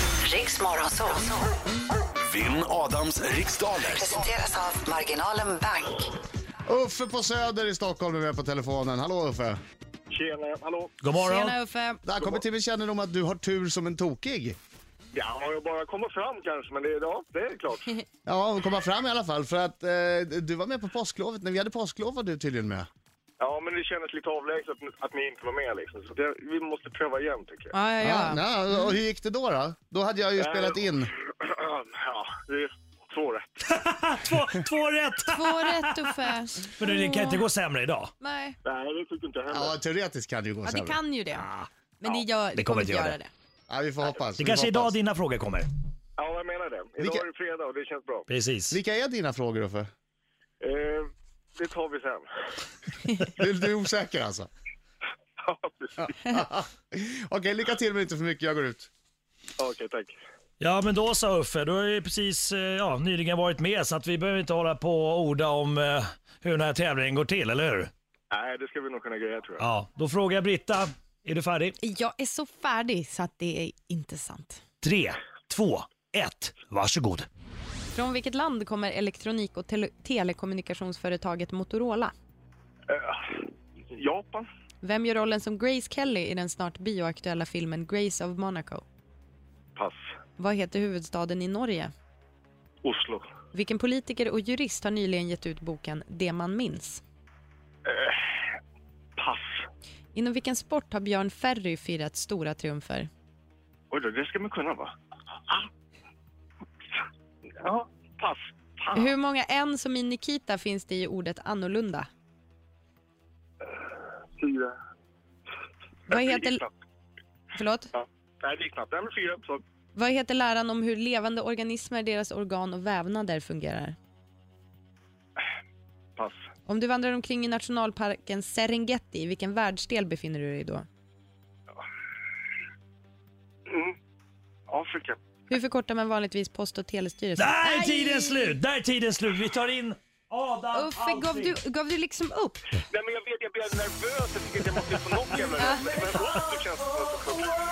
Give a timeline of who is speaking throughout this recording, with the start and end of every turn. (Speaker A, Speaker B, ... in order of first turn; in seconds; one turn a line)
Speaker A: 0.2-1.5
Speaker B: 2.2-4.3
Speaker A: 3.9-6.1
Speaker C: 6.7-9.6
Speaker D: 10.1-10.9
Speaker E: 11.0-11.6
Speaker F: 11.2-12.0
Speaker C: 12.0-14.6
Speaker D: 15.1-18.0
Speaker C: 18.2-22.9
Speaker D: 23.4-27.7
Speaker F: 27.7-28.4
Speaker C: 28.0-31.1
Speaker D: 30.4-33.6
Speaker E: 33.7-38.1
Speaker F: 35.3-37.4
Speaker F: 38.2-38.6
Speaker D: 38.6-39.8
Speaker C: 39.5-41.0
Speaker F: 40.6-41.5
Speaker E: 41.3-41.7
Speaker F: 42.0-43.3
Speaker E: 42.5-43.2
Speaker C: 43.7-44.9
Speaker E: 44.4-45.7
Speaker D: 46.2-48.3
Speaker C: 47.0-47.2
Speaker E: 48.3-48.8
Speaker C: 48.7-49.9
Speaker D: 50.6-52.2
Speaker C: 53.2-54.5
Speaker D: 55.4-56.4
Speaker C: 56.0-58.9
Speaker D: 59.6-60.1
Speaker E: 60.6-67.9
Speaker D: 68.3-69.7
Speaker E: 69.6-71.8
Speaker F: 71.8-74.6
Speaker E: 74.8-77.3
Speaker F: 77.9-82.1
Speaker D: 82.9-83.4
Speaker D: 83.9-84.5
Speaker F: 84.8-88.8
Speaker D: 89.8-90.0
Speaker F: 90.4-91.9
Speaker D: 92.8-93.3
Speaker F: 93.5-97.0
Speaker D: 97.8-98.5
Speaker D: 99.2-99.6
Speaker F: 100.1-103.1
Speaker D: 103.9-104.9
Speaker D: 107.6-109.1
Speaker F: 108.9-112.1
Speaker D: 114.4-114.7
Speaker F: 116.1-116.6
Speaker D: 116.1-116.7
Speaker F: 117.5-117.9
Speaker D: 117.9-119.6
Speaker F: 119.9-124.0
Speaker F: 126.7-130.8
Speaker D: 133.7-133.9
Speaker D: 134.7-135.2
Speaker F: 135.5-138.5
Speaker E: 137.3-141.5
Speaker F: 140.7-142.8
Speaker D: 142.9-147.5
Speaker F: 145.6-146.1